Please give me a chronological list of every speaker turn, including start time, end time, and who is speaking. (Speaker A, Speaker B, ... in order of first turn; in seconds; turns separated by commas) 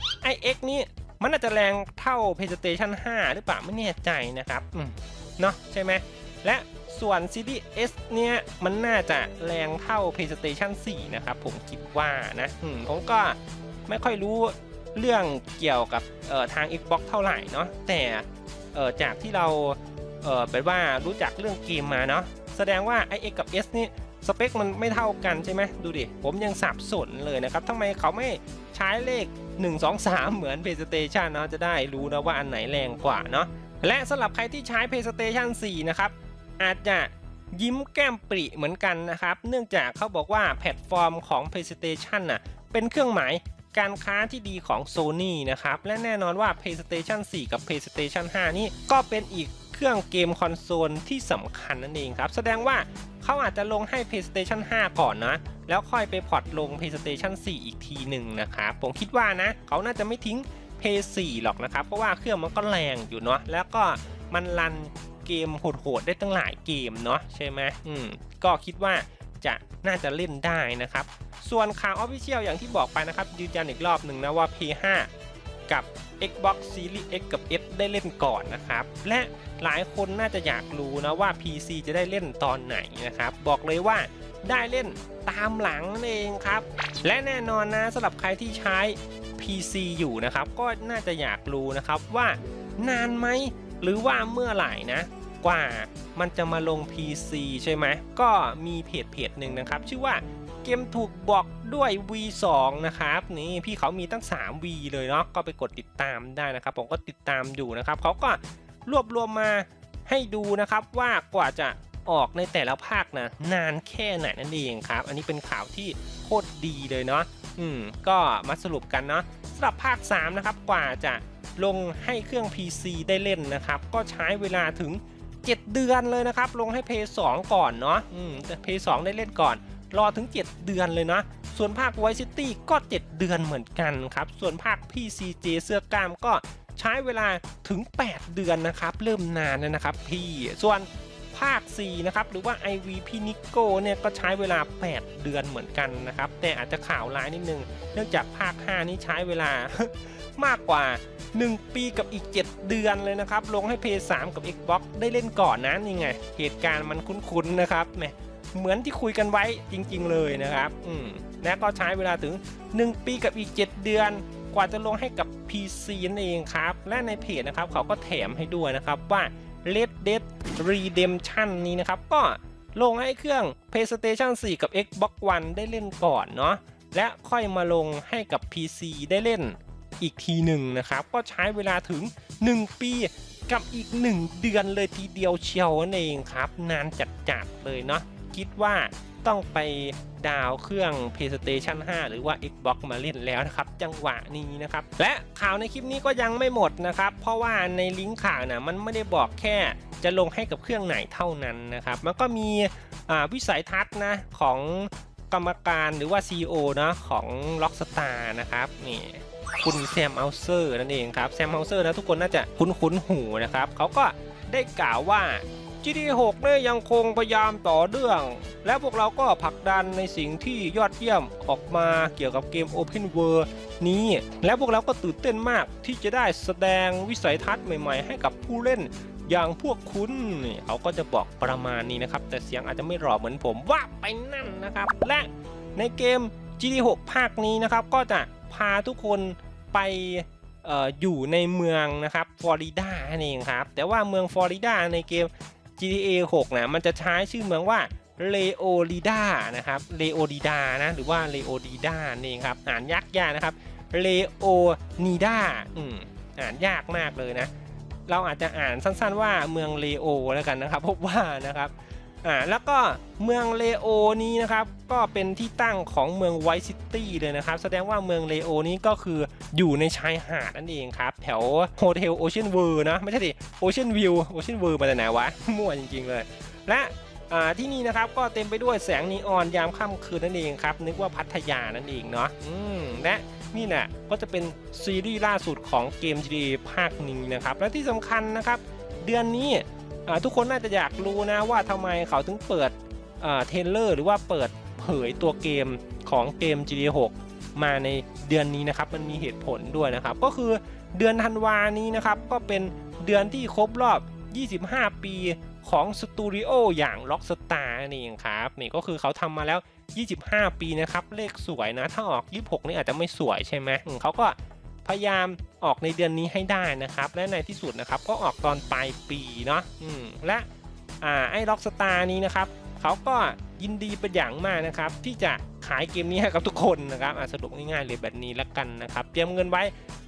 Speaker A: 0.2-75.1, Speaker A: 75.7-257.5, Speaker A: 258.1-320.5, Speaker A: 321.0-329.7